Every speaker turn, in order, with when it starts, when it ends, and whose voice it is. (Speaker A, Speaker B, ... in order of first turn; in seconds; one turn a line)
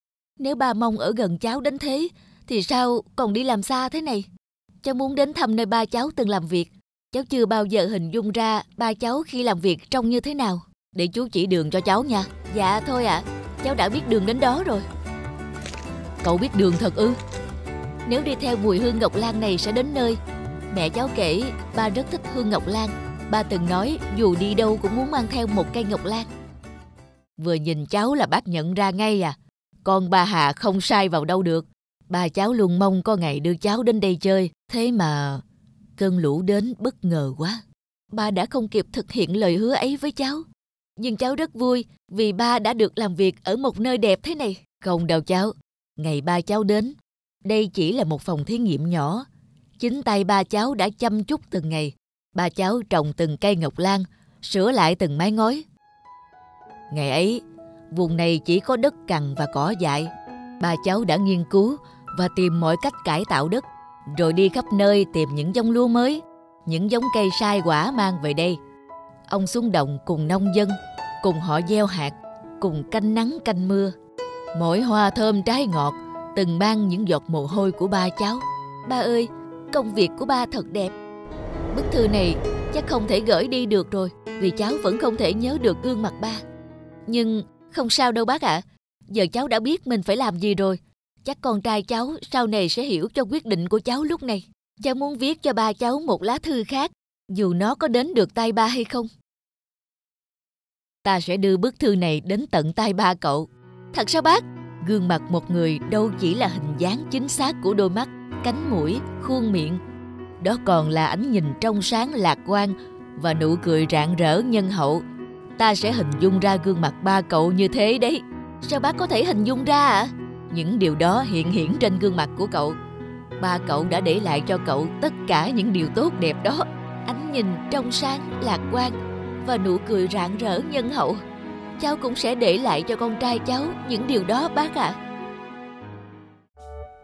Speaker A: 0.4-4.3
Speaker A: 4.8-14.8
Speaker A: 16.2-17.2
Speaker A: 18.1-20.2
Speaker A: 20.7-26.3
Speaker A: 27.4-35.4
Speaker A: 36.0-40.4
Speaker A: 41.0-49.2
Speaker A: 49.8-55.6
Speaker A: 56.9-68.6
Speaker A: 69.3-73.9
Speaker A: 74.5-80.9
Speaker A: 81.7-86.4
Speaker A: 87.0-99.1
Speaker A: 101.0-109.8
Speaker A: 110.4-115.0
Speaker A: 115.6-122.8
Speaker A: 123.4-131.2
Speaker A: 131.8-135.0